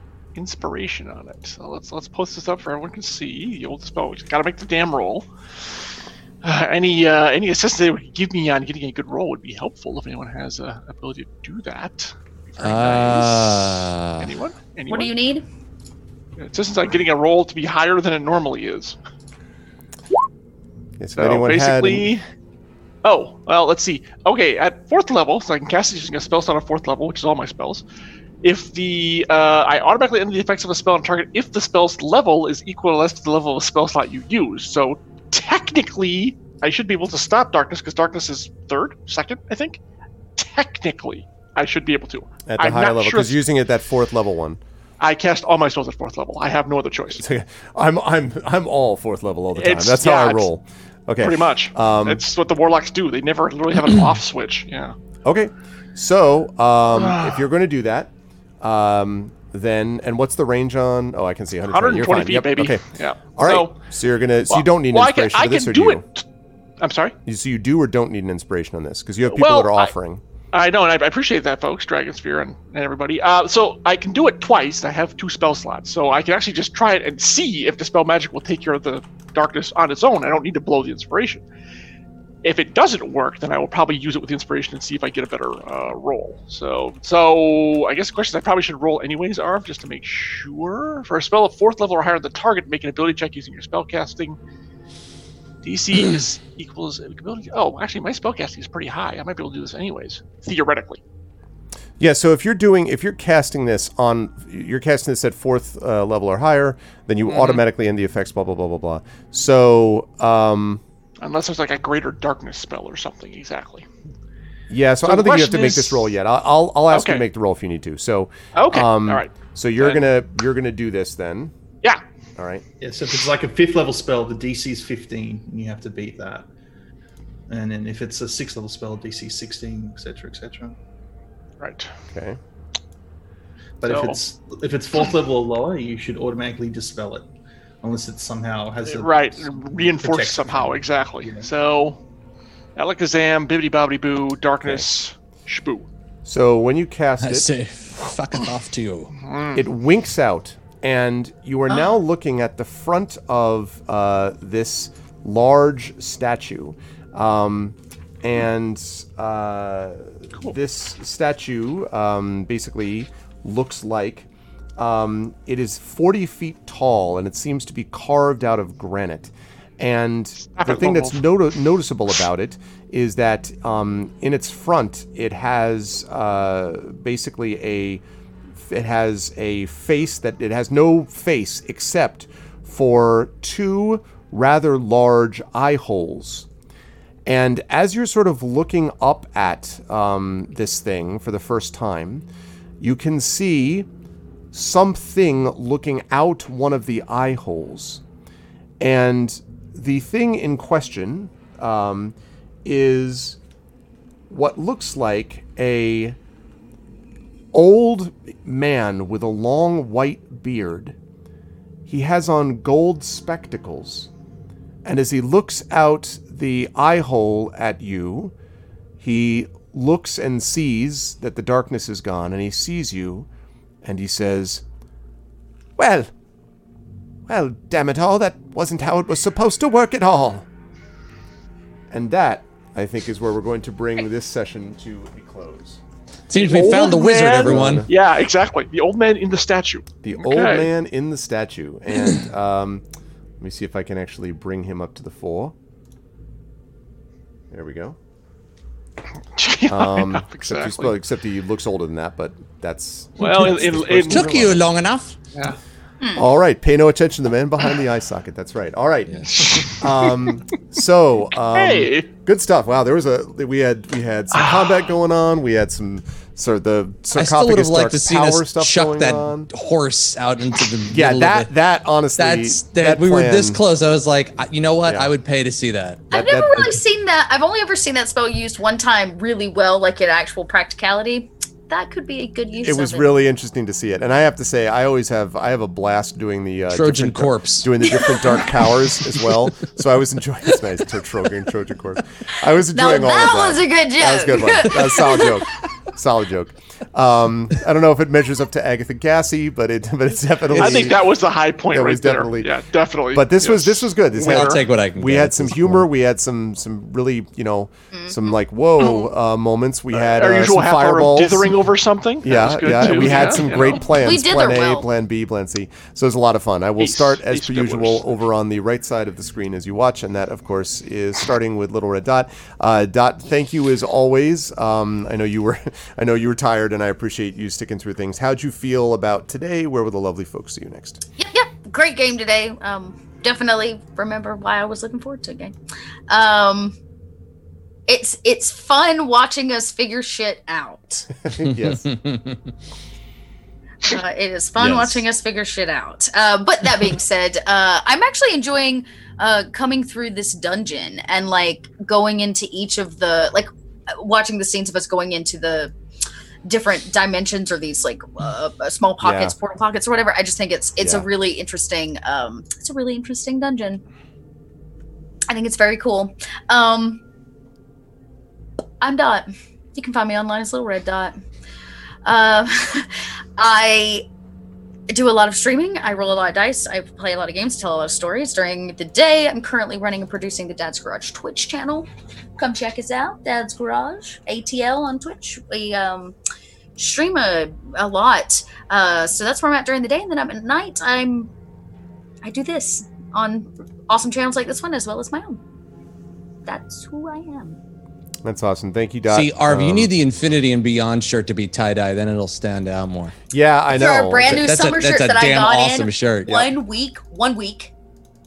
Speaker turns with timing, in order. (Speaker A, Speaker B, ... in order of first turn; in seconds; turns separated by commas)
Speaker A: 0.3-5.2, Speaker A: 6.4-15.1, Speaker B: 12.6-14.3, Speaker C: 14.9-15.4, Speaker A: 16.4-18.9, Speaker D: 21.0-22.1, Speaker A: 21.2-22.2, Speaker A: 23.0-27.8, Speaker A: 28.4-39.8, Speaker A: 40.4-43.4, Speaker D: 42.5-44.6, Speaker A: 45.0-47.2, Speaker D: 47.1-52.2, Speaker A: 49.5-50.5, Speaker A: 51.2-54.9, Speaker D: 55.2-62.8, Speaker A: 56.9-57.4, Speaker A: 61.6-63.8, Speaker D: 63.4-66.0, Speaker A: 64.5-66.2, Speaker A: 66.8-67.1, Speaker D: 67.2-70.2, Speaker A: 69.3-69.9, Speaker A: 70.5-81.4, Speaker A: 82.4-94.4, Speaker A: 95.6-101.0, Speaker D: 102.0-110.8, Speaker A: 107.3-107.6, Speaker A: 111.2-113.8, Speaker D: 114.7-121.5, Speaker A: 115.0-116.1, Speaker A: 116.9-117.2, Speaker A: 118.5-120.1, Speaker D: 122.3-122.6, Speaker E: 122.8-126.5, Speaker E: 127.5-130.8, Speaker A: 131.6-131.9, Speaker D: 132.1-132.4, Speaker E: 133.8-137.3, Speaker A: 133.8-134.2, Speaker E: 137.8-141.5, Speaker A: 138.8-142.0, Speaker A: 142.8-145.9, Speaker D: 146.2-147.5, Speaker B: 147.2-149.1, Speaker A: 149.2-149.6, Speaker D: 149.5-178.0, Speaker A: 170.4-171.3, Speaker D: 178.6-186.5, Speaker D: 187.2-192.2, Speaker D: 192.8-193.9, Speaker D: 194.5-198.0, Speaker D: 198.8-203.4, Speaker D: 204.3-206.2, Speaker D: 207.5-210.9, Speaker D: 211.8-214.1, Speaker D: 214.8-218.3, Speaker D: 219.0-223.3, Speaker D: 223.8-224.6, Speaker D: 225.8-226.1, Speaker D: 227.3-230.5, Speaker D: 231.9-235.8, Speaker B: 236.3-237.9, Speaker A: 236.3-240.7, Speaker D: 237.0-237.9, Speaker D: 240.0-242.8, Speaker D: 243.4-245.5, Speaker D: 247.5-248.0, Speaker A: 249.3-251.0, Speaker D: 249.7-254.6, Speaker A: 253.2-254.4, Speaker B: 254.1-255.2, Speaker C: 256.0-256.3, Speaker D: 256.1-269.5, Speaker A: 259.3-260.3, Speaker A: 261.5-262.1, Speaker B: 267.1-271.5, Speaker D: 270.9-273.6, Speaker B: 272.2-276.7, Speaker D: 274.8-275.1, Speaker C: 276.1-283.1, Speaker D: 276.1-276.7, Speaker D: 282.6-301.1, Speaker B: 286.7-288.4, Speaker C: 292.7-295.4, Speaker A: 300.5-304.6, Speaker D: 301.7-302.5, Speaker D: 303.1-311.6, Speaker B: 304.2-305.9, Speaker A: 308.8-309.1, Speaker A: 309.9-313.9, Speaker D: 312.2-331.0, Speaker C: 313.9-314.9, Speaker A: 316.8-318.1, Speaker C: 331.2-335.5, Speaker C: 336.1-336.8, Speaker C: 337.9-341.1, Speaker D: 341.2-341.9, Speaker B: 341.4-342.5, Speaker C: 343.8-355.7, Speaker B: 344.6-345.0, Speaker C: 356.4-363.8, Speaker D: 359.0-359.3, Speaker D: 360.8-361.1, Speaker C: 365.3-367.0, Speaker C: 368.8-371.1, Speaker C: 372.0-374.0, Speaker C: 374.9-386.1, Speaker C: 386.8-391.3, Speaker C: 392.2-395.4, Speaker C: 396.4-397.6, Speaker D: 398.2-399.9, Speaker B: 399.1-403.1, Speaker D: 403.3-404.5, Speaker C: 403.7-407.7, Speaker B: 404.2-406.5